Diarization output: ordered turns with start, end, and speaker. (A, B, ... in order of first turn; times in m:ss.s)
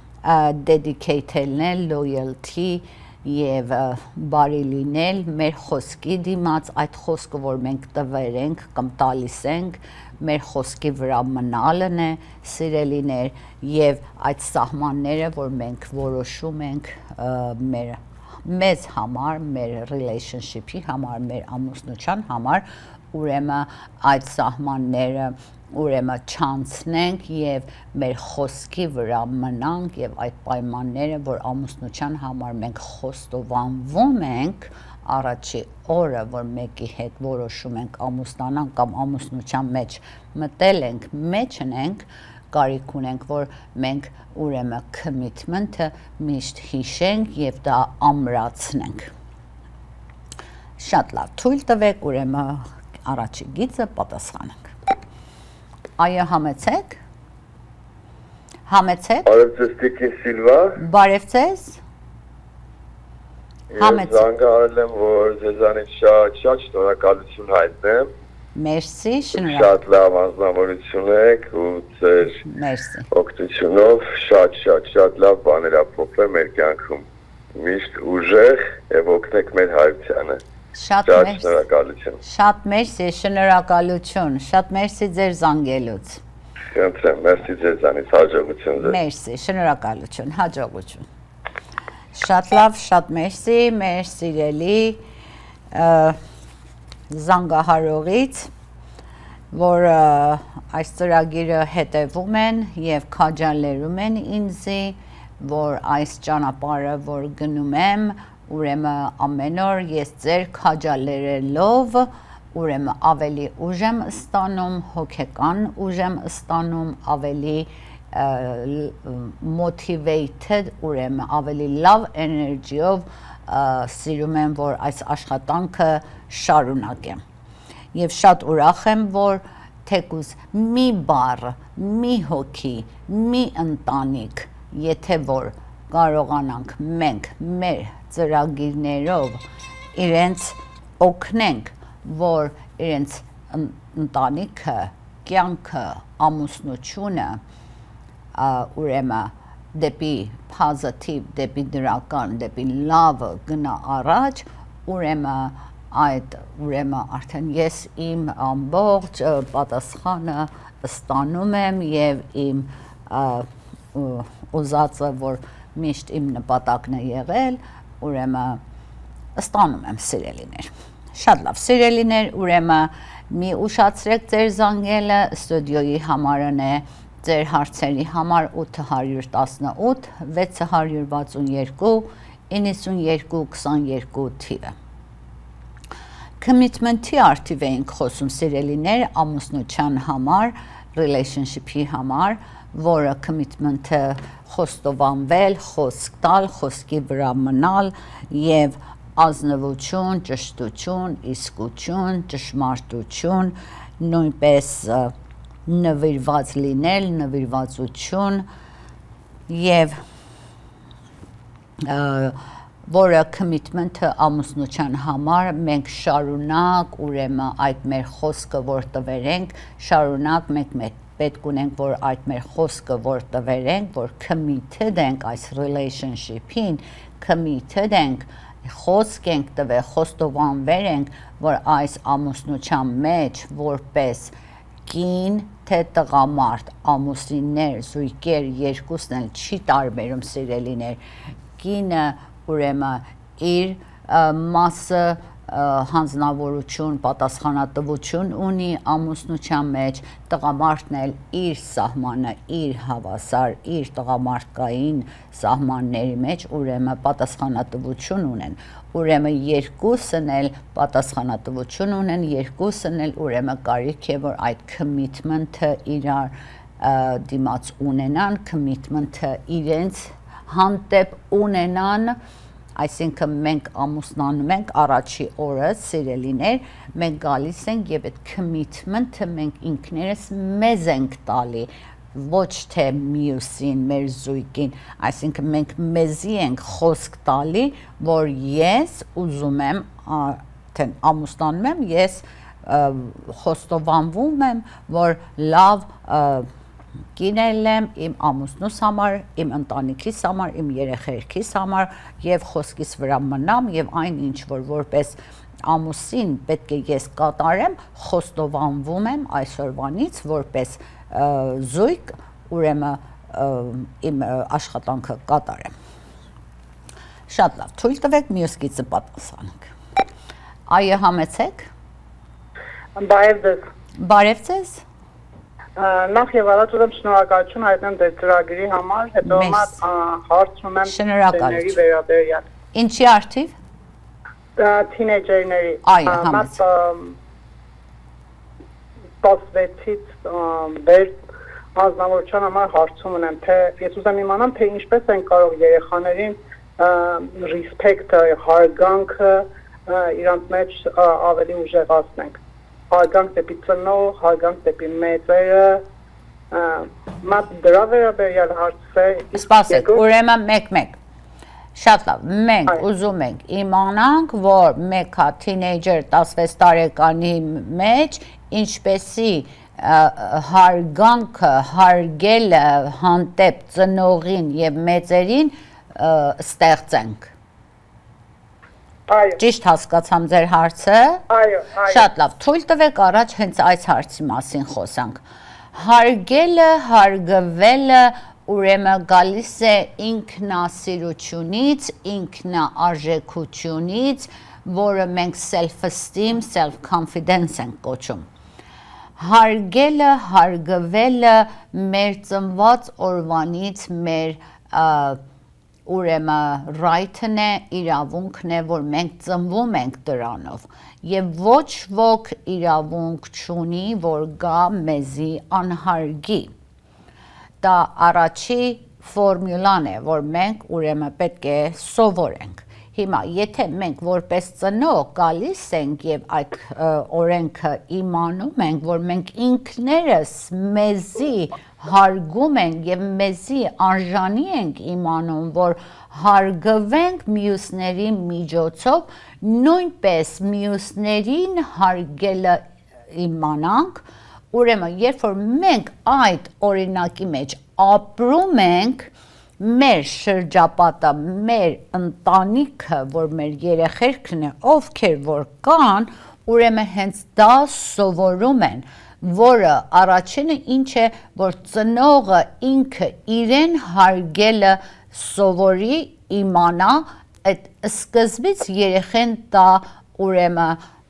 0:00.2-0:49.1 A
0:50.8-0:54.7 A
0:56.0-0:57.0 A
0:58.7-0:59.3 A
0:59.3-1:00.8 B
1:00.8-1:01.8 A
1:03.7-1:08.1 B
1:03.8-1:04.2 A
1:08.6-1:09.7 A
1:09.3-1:12.4 B
1:12.4-1:13.1 A
1:13.1-1:20.4 B
1:20.8-1:21.6 A
1:21.1-1:22.2 B
1:22.2-1:26.2 A
1:26.7-1:29.0 B
1:28.8-1:31.0 A
1:32.1-1:35.0 A
1:35.7-1:36.2 A
1:37.1-1:38.5 A
1:39.5-2:07.2 A
2:07.9-2:19.4 A
2:20.0-2:27.4 A
2:28.4-2:48.6 A
2:49.4-3:04.7 A
3:06.4-3:25.1 A
3:25.7-3:28.5 A
3:29.5-3:30.0 A
3:31.8-3:54.3 A
3:54.9-4:01.0 A
4:01.6-4:32.2 A
4:32.8-4:56.5 A
4:57.2-5:15.7 A
5:17.3-5:19.7 A
5:20.7-5:21.7 A
5:23.0-5:23.6 C
5:24.0-5:24.8 A
5:25.8-5:32.5 C
5:29.3-5:29.8 A
5:30.8-5:31.8 A
5:32.7-5:33.6 A
5:34.6-5:37.2 C
5:35.8-5:36.6 A
5:39.2-5:41.2 C
5:41.8-5:52.4 C
5:52.9-5:55.8 C
5:56.5-6:00.0 C
5:59.3-6:01.0 A
6:01.8-6:17.3 A
6:19.1-6:19.4 C
6:19.4-6:21.2 A
6:21.3-6:22.1 C
6:21.8-6:25.2 A
6:25.7-6:38.3 A
6:39.2-6:45.2 A
6:45.9-6:56.5 A
6:57.6-7:22.6 A
7:23.1-7:50.8 A